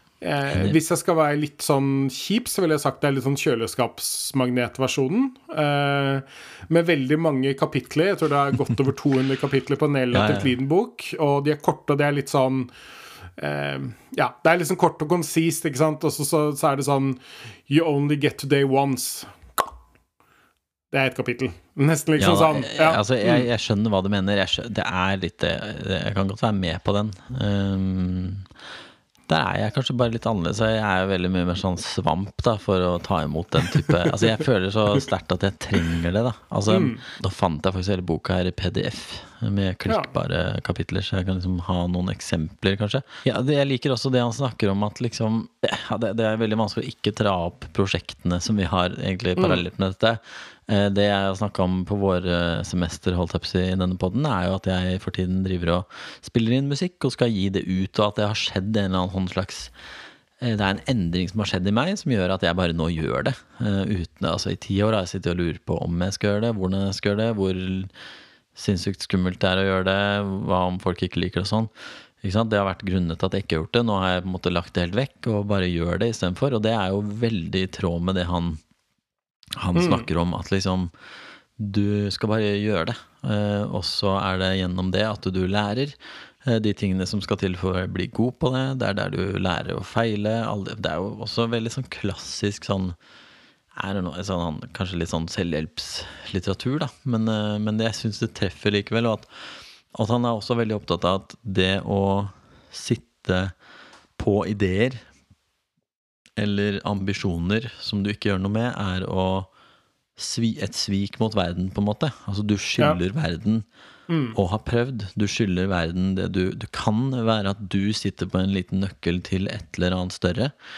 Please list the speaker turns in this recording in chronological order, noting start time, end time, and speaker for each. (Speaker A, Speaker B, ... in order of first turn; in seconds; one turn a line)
Speaker A: 0.2-12.7
Speaker B: 0.5-0.8
Speaker B: 10.1-10.5
Speaker A: 13.4-19.4
Speaker A: 20.9-23.4
Speaker B: 22.2-28.5
Speaker B: 29.3-59.7
Speaker A: 36.7-37.0
Speaker A: 49.4-49.6
Speaker B: 60.4-67.9
Speaker B: 68.5-71.7
Speaker B: 72.2-78.6
Speaker B: 79.6-80.9
Speaker A: 79.8-80.1
Speaker B: 81.6-93.0
Speaker B: 93.7-99.3
Speaker B: 99.9-103.5
Speaker B: 104.2-105.0
Speaker B: 106.4-109.5
Speaker B: 110.2-113.7
Speaker A: 114.1-114.4
Speaker B: 114.3-120.5